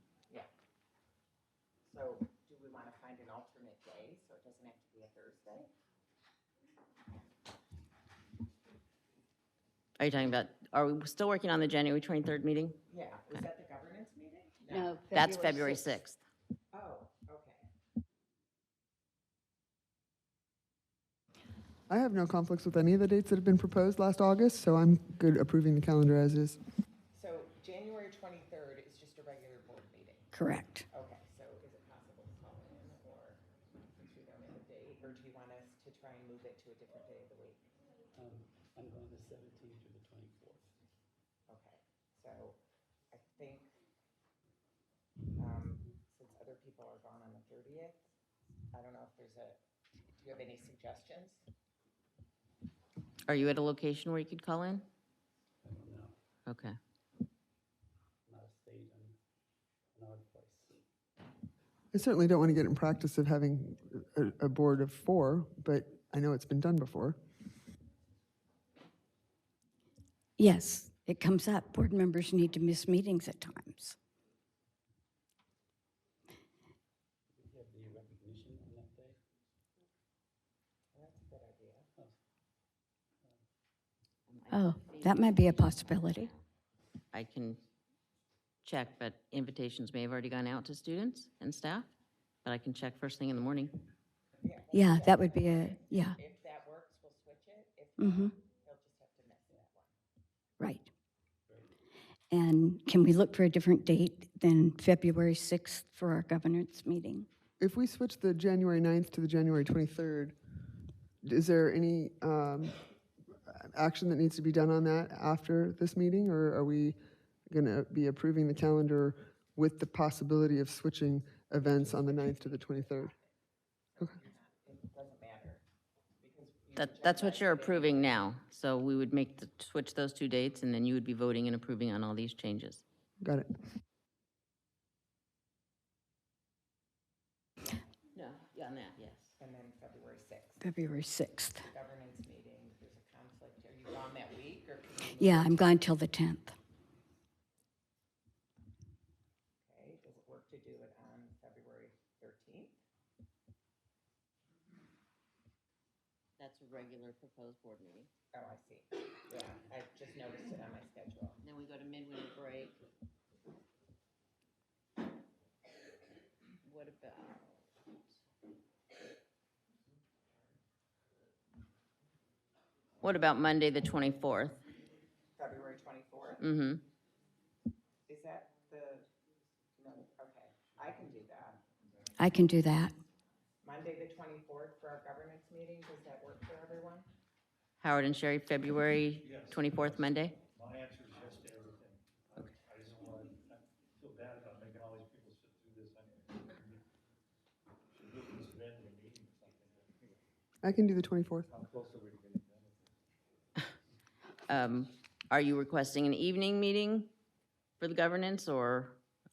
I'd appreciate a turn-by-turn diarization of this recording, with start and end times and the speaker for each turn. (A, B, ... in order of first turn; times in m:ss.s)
0:01.8-0:05.7 A
0:10.0-0:12.8 B
0:12.9-0:15.0 A
0:14.7-0:16.0 C
0:15.1-0:16.2 B
0:16.7-0:17.7 A
0:21.9-0:26.6 D
0:27.1-0:37.6 A
0:30.3-0:30.8 C
0:38.1-0:40.7 E
0:41.5-0:42.6 A
0:43.1-0:43.7 A
0:45.4-0:48.1 A
0:48.7-0:49.6 A
0:50.2-0:51.4 A
0:53.2-0:54.8 B
0:55.6-0:56.2 E
0:56.4-0:56.8 B
0:58.2-0:59.2 E
0:59.9-1:00.8 E
1:01.9-1:07.2 D
1:10.4-1:14.0 C
1:17.3-1:19.2 E
1:20.9-1:21.9 A
1:24.3-1:26.4 B
1:24.5-1:26.3 C
1:27.1-1:27.6 B
1:28.6-1:31.9 B
1:32.4-1:33.8 B
1:34.4-1:39.9 A
1:34.7-1:36.2 C
1:38.0-1:38.3 C
1:40.6-1:40.9 C
1:41.5-1:41.8 E
1:42.3-1:47.3 C
1:47.6-1:50.4 D
1:51.2-1:52.8 D
1:53.5-1:57.0 D
1:57.5-2:03.1 D
2:01.6-2:03.3 A
2:03.9-2:05.6 A
2:06.2-2:08.1 A
2:06.8-2:12.8 B
2:13.2-2:13.6 D
2:18.1-2:19.3 B
2:19.4-2:20.7 A
2:20.6-2:21.7 C
2:21.6-2:25.7 A
2:25.2-2:26.5 C
2:29.6-2:32.8 A
2:36.4-2:38.1 B
2:38.3-2:41.4 A
2:41.4-2:42.8 B
2:46.6-2:47.6 B
2:53.0-2:54.6 B
2:55.4-2:56.4 A
2:56.4-2:56.8 B
2:58.1-2:59.1 A
2:59.8-3:01.6 A
3:02.2-3:02.9 C
3:03.6-3:07.1 A
3:07.8-3:10.4 B
3:09.2-3:16.8 F
3:17.9-3:20.2 F
3:20.6-3:21.5 D
3:21.5-3:23.0 F
3:24.5-3:27.1 B
3:27.8-3:29.0 B